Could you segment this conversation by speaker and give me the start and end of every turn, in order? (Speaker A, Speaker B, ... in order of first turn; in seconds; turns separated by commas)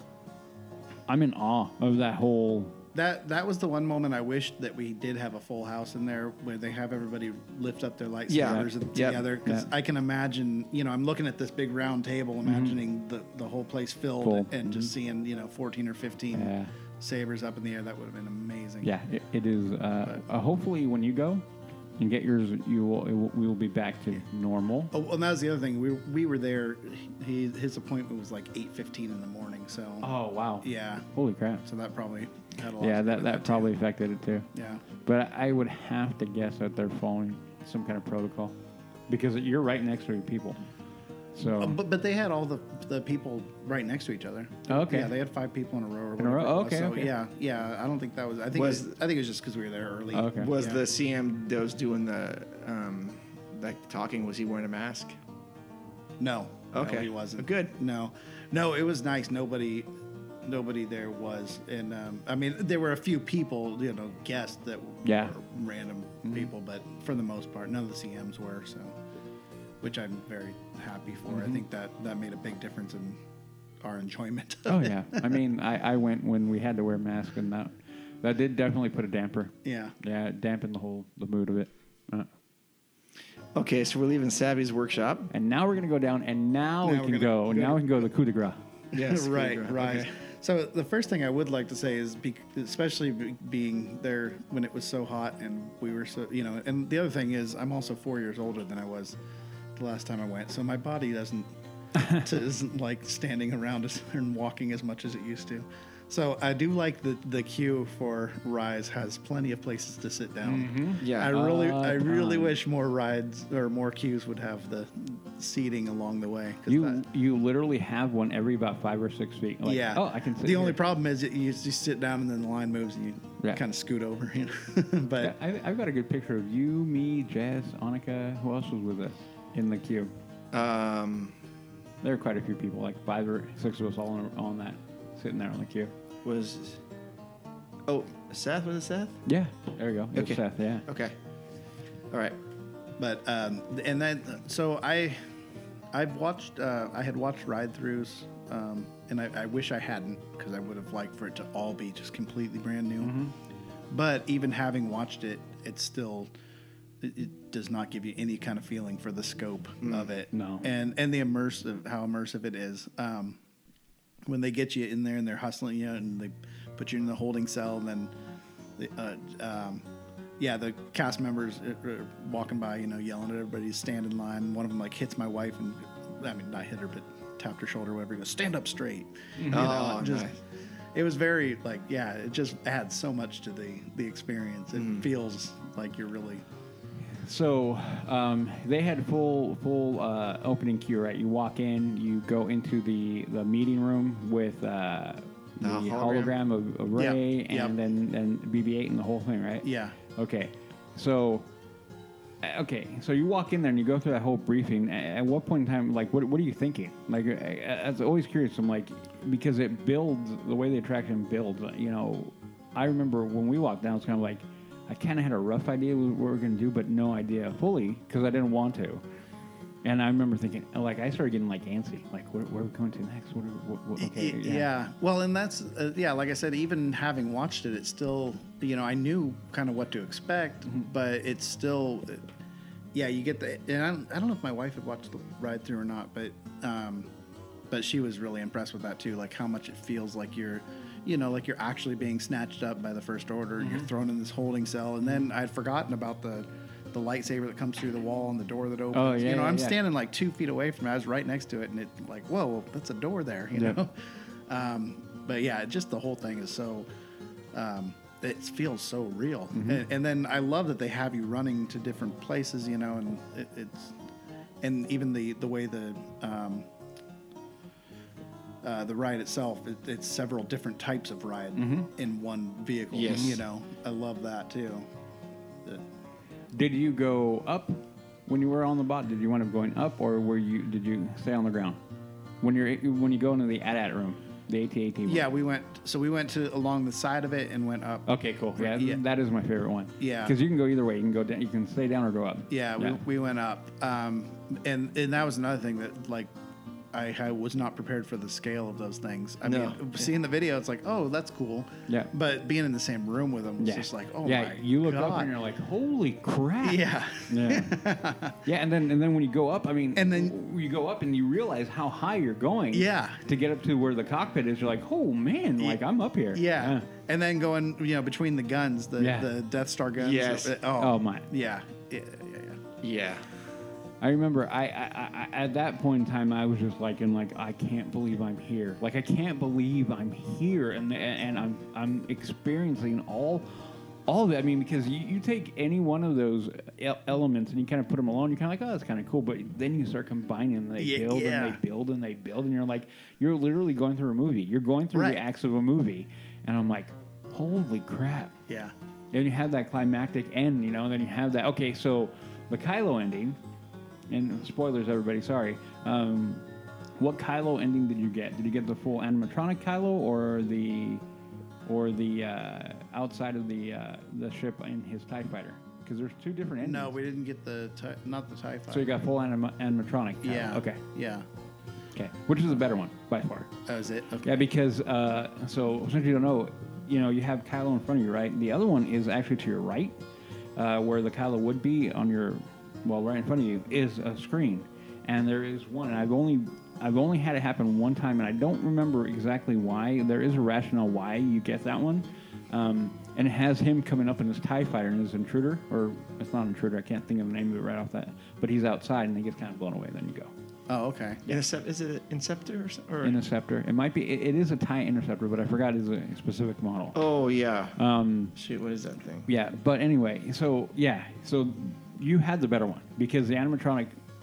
Speaker A: 1.1-2.8, Speaker B: 3.0-18.9, Speaker C: 8.3-9.2, Speaker A: 8.4-8.7, Speaker A: 9.4-9.7, Speaker A: 12.4-12.8, Speaker A: 14.2-14.9, Speaker A: 16.3-16.7, Speaker A: 18.8-21.4, Speaker A: 22.0-24.9, Speaker B: 24.9-31.1, Speaker A: 30.0-31.6, Speaker B: 31.6-33.8, Speaker A: 32.8-34.5, Speaker B: 34.5-34.8, Speaker A: 35.0-38.5, Speaker A: 39.1-40.6, Speaker A: 41.4-41.8, Speaker B: 41.6-50.8, Speaker A: 44.7-45.1, Speaker A: 46.2-47.1, Speaker C: 48.5-48.9, Speaker A: 50.1-50.5, Speaker C: 50.4-55.2, Speaker B: 56.2-59.9, Speaker C: 56.7-57.7, Speaker B: 60.4-69.0, Speaker A: 65.0-65.3, Speaker A: 66.2-66.5, Speaker B: 69.8-73.2, Speaker A: 71.3-71.6, Speaker B: 73.8-75.4, Speaker A: 74.7-82.3, Speaker B: 79.6-80.0, Speaker C: 83.5-85.3, Speaker A: 85.3-88.6, Speaker B: 86.8-88.0, Speaker C: 88.9-90.1, Speaker B: 88.9-99.2, Speaker B: 99.8-101.5, Speaker A: 102.0-102.3, Speaker B: 102.1-117.0, Speaker A: 110.4-112.6, Speaker C: 111.0-111.3, Speaker A: 116.7-120.8, Speaker B: 119.6-125.3, Speaker A: 125.2-130.1, Speaker C: 130.5-131.3, Speaker A: 132.0-135.9, Speaker C: 136.2-136.8, Speaker C: 137.9-139.2, Speaker A: 139.3-140.8, Speaker C: 140.1-141.1, Speaker C: 142.1-142.4, Speaker B: 143.0-145.2, Speaker B: 145.9-153.2, Speaker A: 153.0-153.3, Speaker B: 153.9-156.3, Speaker B: 157.0-163.4, Speaker C: 159.8-160.1, Speaker A: 160.3-160.7, Speaker B: 164.2-168.1, Speaker B: 168.8-169.9, Speaker B: 170.4-180.3, Speaker A: 179.4-179.8, Speaker C: 179.5-180.3, Speaker B: 180.9-186.4, Speaker C: 184.8-185.1, Speaker A: 187.2-201.5, Speaker C: 195.6-196.3, Speaker B: 197.0-197.8, Speaker B: 199.6-200.0, Speaker A: 202.4-219.0, Speaker A: 219.8-224.7, Speaker B: 224.0-232.3, Speaker B: 232.9-237.1, Speaker B: 237.7-256.9, Speaker A: 243.6-243.9, Speaker A: 248.9-249.8, Speaker B: 257.5-263.9, Speaker A: 259.5-259.8, Speaker B: 264.6-266.7, Speaker B: 268.6-274.9, Speaker A: 271.6-271.9, Speaker C: 272.9-273.4, Speaker A: 276.5-281.8, Speaker A: 282.4-285.2, Speaker B: 285.1-289.0, Speaker A: 288.1-293.0, Speaker B: 290.0-290.4, Speaker B: 292.5-296.3, Speaker B: 296.9-305.3, Speaker C: 299.5-299.8, Speaker A: 303.6-307.8, Speaker B: 306.6-308.4, Speaker A: 308.4-316.9, Speaker B: 309.9-310.4, Speaker B: 312.7-313.2, Speaker B: 316.3-322.6, Speaker A: 319.0-319.3, Speaker C: 320.0-320.6, Speaker A: 320.8-321.3, Speaker C: 322.8-323.3, Speaker A: 324.0-333.5, Speaker A: 334.1-348.3, Speaker B: 340.8-341.6, Speaker B: 344.9-345.2, Speaker B: 348.5-348.7, Speaker A: 349.1-353.4, Speaker A: 354.1-356.4, Speaker A: 357.0-361.0, Speaker A: 361.7-366.9, Speaker B: 366.6-368.9, Speaker A: 368.7-370.8, Speaker B: 370.2-371.3, Speaker A: 371.9-373.5, Speaker B: 373.7-374.4, Speaker A: 374.2-379.9, Speaker A: 380.6-400.3, Speaker B: 400.7-401.2, Speaker C: 401.3-403.2, Speaker A: 403.0-407.0, Speaker C: 406.9-407.8, Speaker A: 407.8-408.3, Speaker C: 408.4-409.3, Speaker A: 409.3-413.9